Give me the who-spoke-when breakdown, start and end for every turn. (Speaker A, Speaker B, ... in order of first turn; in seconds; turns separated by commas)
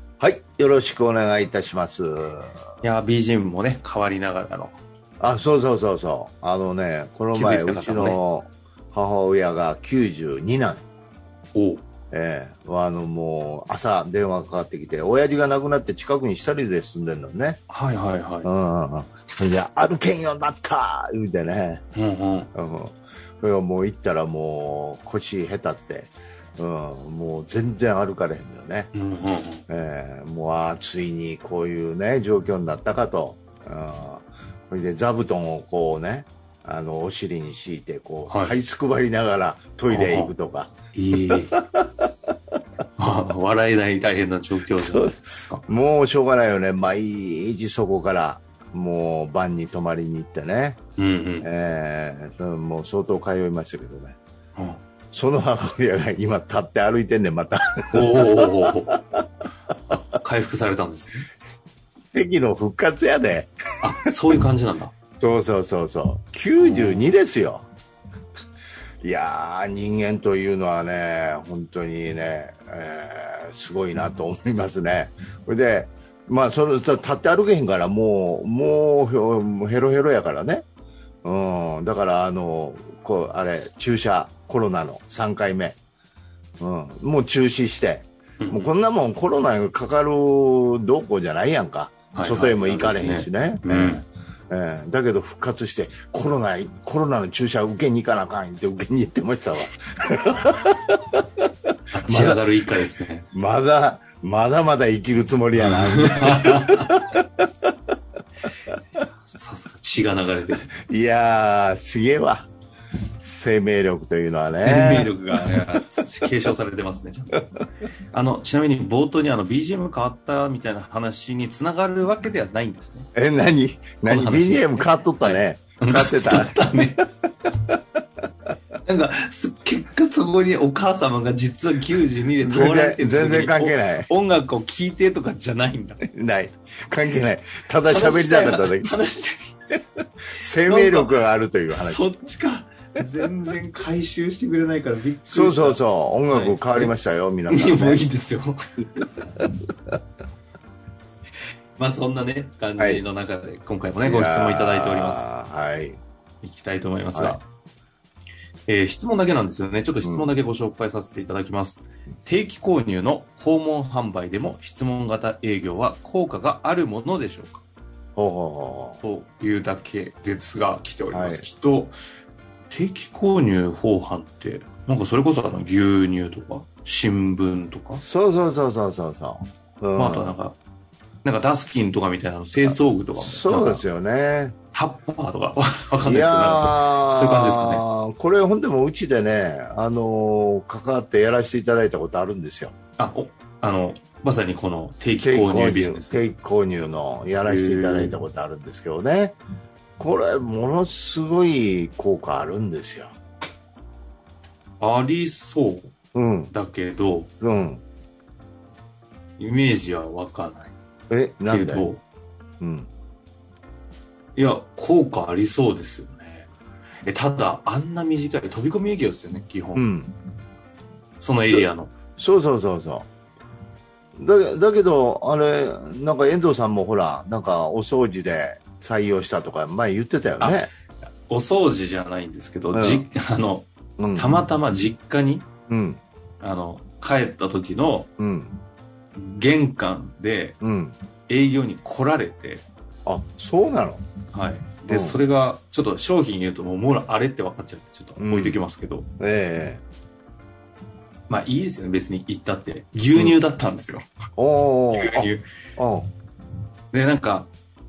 Speaker A: 0.2-2.6, Speaker B: 2.8-4.8, Speaker A: 5.2-10.8, Speaker B: 7.3-8.2, Speaker B: 11.5-11.8, Speaker A: 12.1-17.6, Speaker B: 17.7-18.5, Speaker A: 18.4-21.8, Speaker B: 21.9-22.5, Speaker A: 22.6-28.9, Speaker B: 28.9-29.6, Speaker A: 29.7-42.1, Speaker B: 38.3-38.5, Speaker B: 39.9-40.3, Speaker B: 40.9-41.5, Speaker B: 43.0-45.6, Speaker A: 44.7-50.8, Speaker B: 51.0-51.5, Speaker A: 51.4-54.2, Speaker B: 54.6-54.8, Speaker A: 55.1-59.2, Speaker B: 57.9-59.0, Speaker B: 59.9-61.3, Speaker A: 62.1-64.1, Speaker B: 63.8-65.0, Speaker A: 65.2-67.7, Speaker B: 66.6-67.2, Speaker A: 69.0-80.6, Speaker A: 81.2-85.8, Speaker A: 86.6-101.4, Speaker B: 88.4-88.7, Speaker B: 92.1-94.0, Speaker B: 102.0-103.3, Speaker A: 102.0-102.4, Speaker A: 103.3-107.7, Speaker B: 105.7-107.0, Speaker B: 109.2-110.7, Speaker A: 110.8-112.5, Speaker A: 113.2-115.8, Speaker B: 114.6-117.4, Speaker B: 118.1-123.1, Speaker A: 123.2-127.8, Speaker B: 124.0-127.0, Speaker B: 128.8-136.0, Speaker A: 132.4-134.1, Speaker A: 136.1-138.9, Speaker B: 137.8-139.6, Speaker A: 140.4-142.1, Speaker B: 140.7-141.2, Speaker B: 141.7-146.9, Speaker A: 145.3-148.0, Speaker B: 147.5-149.3, Speaker B: 151.8-155.3, Speaker A: 152.8-153.0, Speaker A: 154.0-156.0, Speaker B: 156.4-157.4, Speaker B: 158.7-167.6, Speaker A: 160.0-160.3, Speaker A: 168.2-169.0, Speaker B: 169.0-171.9, Speaker A: 171.1-171.4, Speaker B: 172.7-178.0, Speaker A: 178.0-180.4, Speaker B: 180.0-180.6, Speaker B: 181.2-183.8, Speaker A: 182.7-184.6, Speaker B: 184.7-187.8, Speaker A: 186.0-192.7, Speaker B: 193.0-196.2, Speaker A: 195.2-199.4, Speaker B: 197.4-198.2, Speaker A: 200.0-203.2, Speaker B: 204.8-205.9, Speaker A: 206.2-206.5, Speaker B: 206.5-207.3, Speaker A: 207.4-207.8, Speaker B: 209.4-210.7, Speaker A: 211.1-211.9, Speaker B: 211.5-212.0, Speaker A: 212.6-212.9, Speaker B: 214.4-216.5, Speaker B: 217.1-219.8, Speaker A: 219.8-220.1, Speaker B: 221.2-221.9, Speaker A: 221.5-223.1, Speaker A: 224.2-230.7, Speaker B: 231.3-235.5, Speaker A: 232.7-233.1, Speaker A: 234.0-234.4, Speaker A: 235.7-236.0, Speaker B: 236.4-238.1, Speaker A: 238.2-238.6, Speaker B: 239.2-240.6, Speaker A: 240.6-240.9, Speaker B: 241.3-242.7, Speaker A: 243.1-244.0, Speaker B: 244.3-249.1, Speaker A: 244.9-245.2, Speaker A: 248.2-248.6, Speaker A: 249.2-249.8, Speaker B: 251.3-254.1, Speaker A: 254.4-256.1, Speaker B: 254.9-255.4, Speaker B: 256.9-257.5